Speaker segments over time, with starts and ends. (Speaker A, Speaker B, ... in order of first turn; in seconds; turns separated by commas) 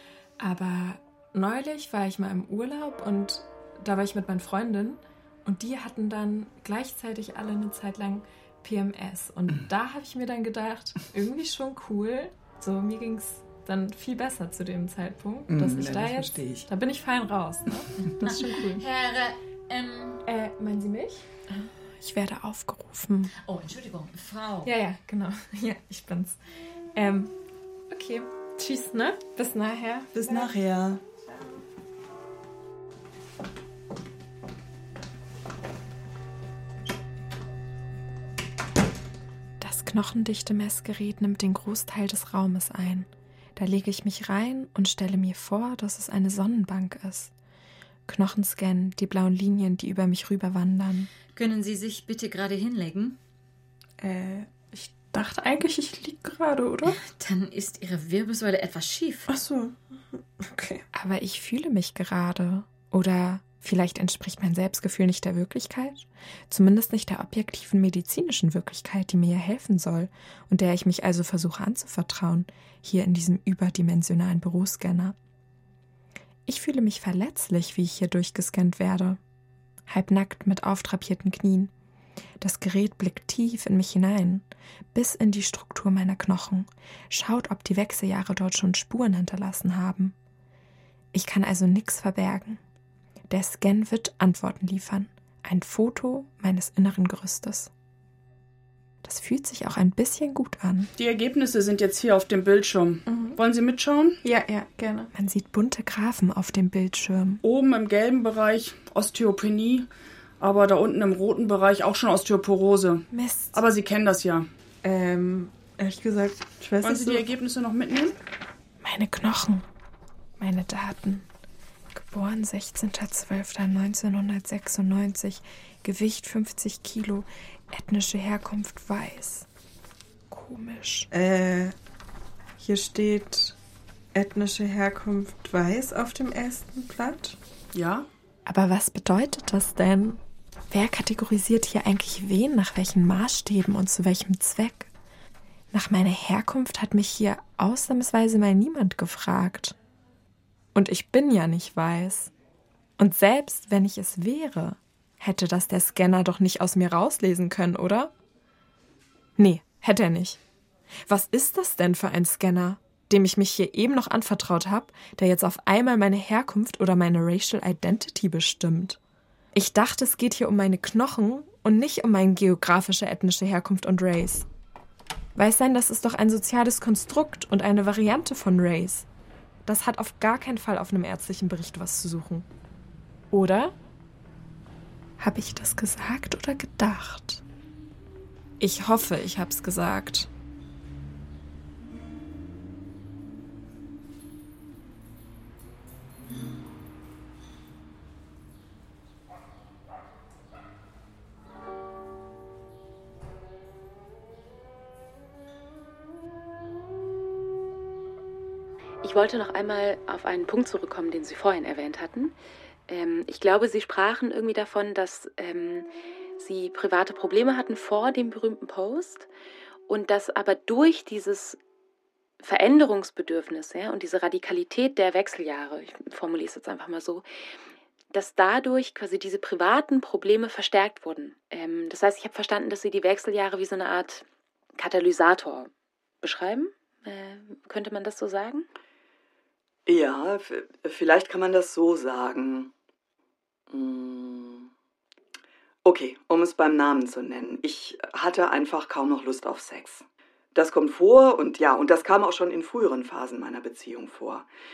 Speaker A: 0.4-18.8, Speaker B: 15.5-16.7, Speaker C: 18.2-20.2, Speaker A: 20.2-23.3, Speaker C: 23.4-24.7, Speaker A: 24.6-26.4, Speaker A: 26.9-27.3, Speaker A: 27.9-30.5, Speaker B: 30.1-31.0, Speaker A: 39.6-47.3, Speaker A: 48.1-51.1, Speaker C: 51.3-53.2, Speaker A: 54.0-57.0, Speaker C: 56.8-59.3, Speaker A: 59.3-59.7, Speaker A: 60.4-75.2, Speaker A: 76.5-79.2, Speaker A: 79.9-81.7, Speaker A: 82.4-90.1, Speaker A: 91.1-92.6, Speaker A: 93.3-97.7, Speaker A: 99.0-100.9, Speaker D: 101.0-104.2, Speaker A: 103.1-103.3, Speaker A: 104.3-107.4, Speaker D: 107.4-109.9, Speaker D: 110.4-114.5, Speaker A: 113.1-113.6, Speaker A: 114.8-117.2, Speaker D: 116.8-118.2, Speaker A: 118.8-119.6, Speaker A: 120.4-121.3, Speaker A: 121.9-129.4, Speaker A: 130.3-131.7, Speaker A: 132.6-133.5, Speaker A: 134.1-137.3, Speaker D: 137.7-138.1, Speaker A: 138.4-140.2, Speaker A: 140.7-144.9, Speaker A: 145.7-149.8, Speaker A: 150.7-152.3, Speaker A: 153.0-158.1, Speaker A: 159.4-160.4, Speaker A: 161.1-169.0, Speaker A: 169.5-174.5, Speaker A: 175.3-179.1, Speaker A: 179.7-182.5, Speaker A: 183.3-183.7, Speaker A: 185.2-187.4, Speaker A: 188.6-190.3, Speaker E: 209.0-212.3, Speaker E: 212.9-215.8, Speaker E: 216.4-219.3, Speaker E: 219.9-221.6, Speaker E: 222.4-227.2, Speaker E: 228.1-234.2, Speaker E: 234.8-235.7, Speaker E: 236.2-238.7, Speaker B: 239.8-242.7, Speaker B: 243.7-244.7, Speaker B: 245.8-250.0, Speaker B: 250.5-254.5